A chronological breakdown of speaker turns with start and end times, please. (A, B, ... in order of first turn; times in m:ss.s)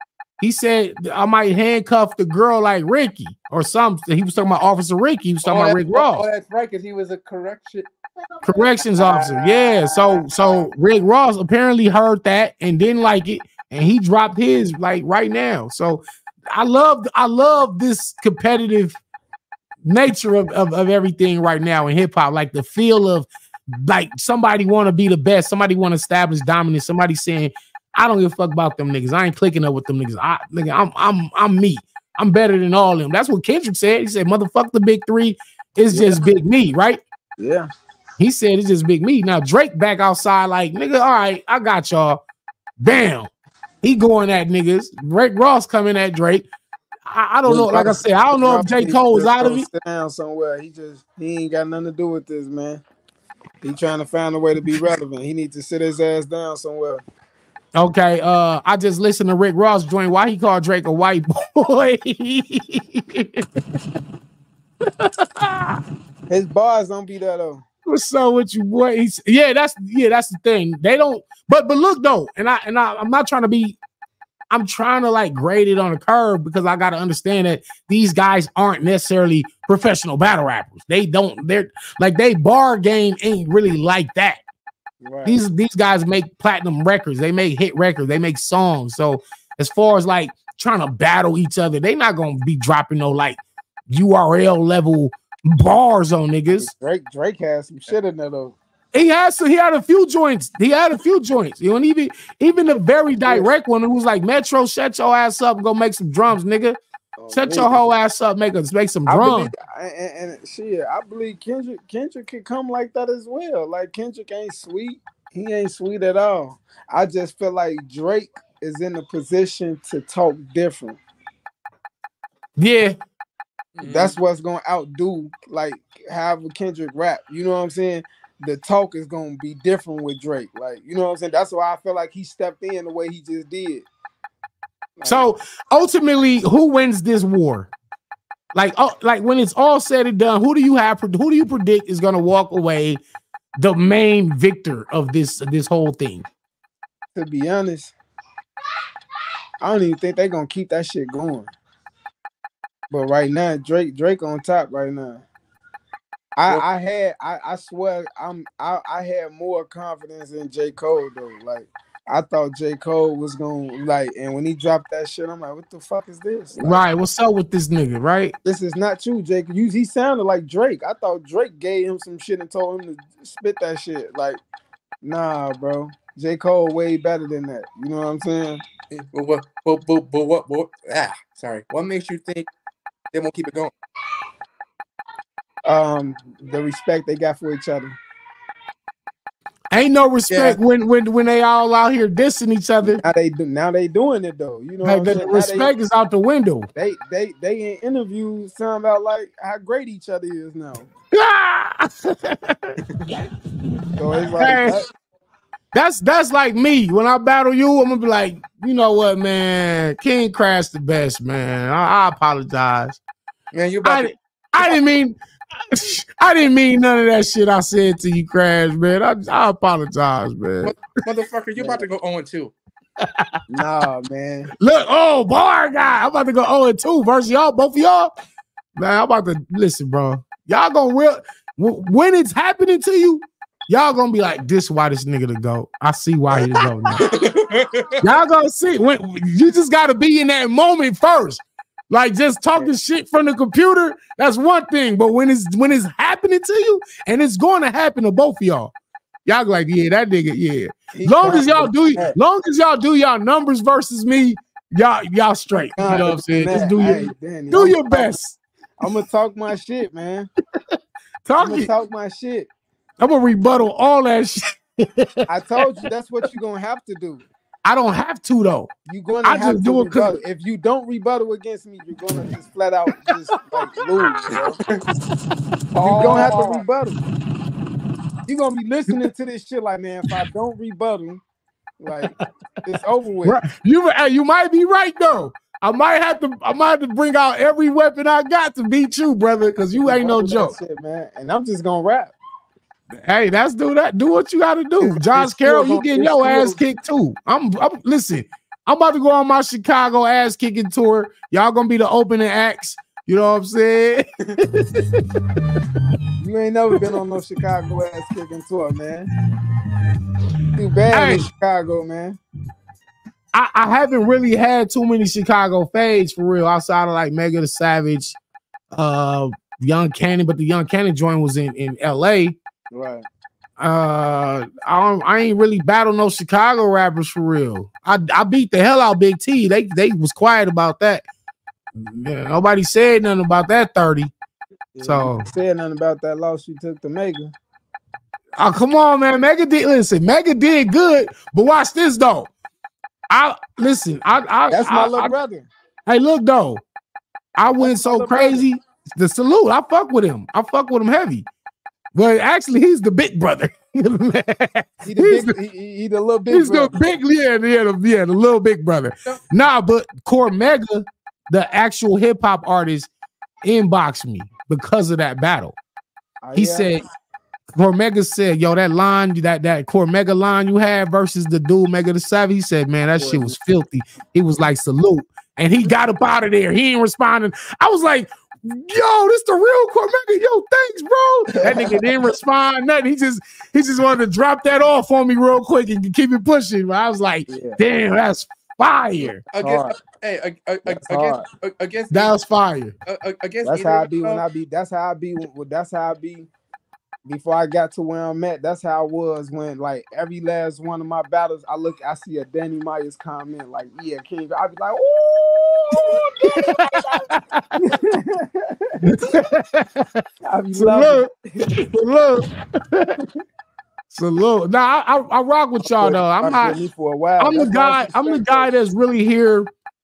0:00.4-0:06.3 A
0:05.4-0:07.9 B
0:08.4-0:19.0 A
0:08.5-0:10.7 C
0:19.8-0:37.0 A
0:35.9-0:36.2 C
0:37.4-0:37.7 C
0:38.2-0:42.2 A
0:42.8-0:43.3 A
0:43.8-0:46.5 A
0:47.1-0:49.7 A
0:47.4-0:52.8 C
0:53.6-0:57.0 C
0:57.7-1:03.8 A
1:04.8-1:05.8 A
1:06.3-1:07.6 C
1:07.9-1:13.8 A
1:14.5-1:24.4 A
1:25.0-1:25.4 C
1:25.2-1:36.7 A
1:36.5-1:38.6 C
1:38.9-1:46.8 A
1:43.3-1:43.5 C
1:47.2-1:47.8 C
1:47.3-1:49.5 A
1:49.1-2:01.0 C
2:02.6-2:03.0 A
2:03.8-2:04.2 B
2:03.8-2:13.9 C
2:15.0-2:15.3 C
2:15.1-2:17.7 A
2:18.5-2:23.0 A
2:23.6-2:26.3 A
2:27.2-2:27.9 C
2:29.6-2:31.5 C
2:32.9-2:35.2 C
2:36.4-2:46.8 C
2:46.6-2:48.4 A
2:48.4-2:54.4 C
2:55.0-2:58.6 C
2:58.9-3:02.5 B
3:03.1-3:03.7 B
3:05.6-3:08.0 C
3:09.7-3:13.0 A
3:10.3-3:10.6 B
3:12.8-3:15.7 C
3:14.8-3:16.7 A
3:16.7-3:20.9 C
3:21.1-3:22.8 A
3:24.0-3:24.9 C
3:24.3-3:24.8 A
3:25.7-3:33.0 A
3:33.5-3:34.8 B
3:33.8-3:35.2 A
3:35.7-3:40.7 A
3:40.6-3:42.5 B
3:43.0-3:43.4 A
3:43.5-3:44.5 C
3:44.6-3:48.1 A
3:48.8-3:57.1 A
3:56.3-3:57.0 C
3:57.1-3:58.0 B
3:58.0-4:08.7 A
4:09.3-4:18.4 A
4:10.9-4:12.2 C
4:15.8-4:18.2 C
4:18.8-4:20.3 C
4:21.2-4:21.7 A
4:21.4-4:22.5 C
4:23.0-4:25.7 A
4:25.3-4:27.2 C
4:27.6-4:28.7 A
4:28.9-4:34.6 C
4:29.2-4:30.2 A
4:33.0-4:34.1 A
4:35.8-4:36.6 B
4:35.8-4:37.0 C
4:35.9-4:36.4 A
4:38.3-4:41.2 C
4:41.8-4:42.1 C
4:42.0-4:42.3 A
4:42.6-4:43.4 C
4:43.2-4:50.6 A
4:49.8-4:52.1 C
4:53.0-5:04.1 A
4:54.8-4:56.6 C
5:04.6-5:05.0 A
5:06.2-5:09.1 C
5:10.6-5:12.2 C
5:10.9-5:11.3 A
5:13.3-5:18.2 A
5:18.7-5:22.4 A
5:22.7-5:23.1 C
5:23.6-5:31.0 A
5:31.8-5:34.1 A
5:34.8-5:37.3 C
5:34.8-5:35.3 A
5:38.4-5:42.3 A
5:43.1-5:45.1 A
5:44.5-5:45.5 C
5:45.9-5:46.6 A
5:47.4-5:51.3 A
5:47.6-5:48.5 C
5:51.9-5:55.4 A
5:54.8-5:56.8 C
5:56.3-6:02.9 A
6:03.4-6:05.6 A
6:06.2-6:06.7 C
6:06.3-6:06.8 A
6:07.6-6:29.2 A
6:13.0-6:13.4 C
6:21.3-6:21.8 C
6:27.3-6:27.6 C
6:29.0-6:29.8 C
6:29.3-6:32.1 B
6:30.7-6:31.2 C
6:31.9-6:32.7 A
6:32.9-6:34.2 B
6:33.4-6:36.3 C
6:37.1-6:47.1 C
6:45.7-6:47.4 A
6:47.6-6:48.8 C
6:48.8-6:53.0 A
6:50.2-6:51.7 C
6:53.9-6:56.6 A
6:55.6-6:58.5 C
6:57.2-6:59.5 A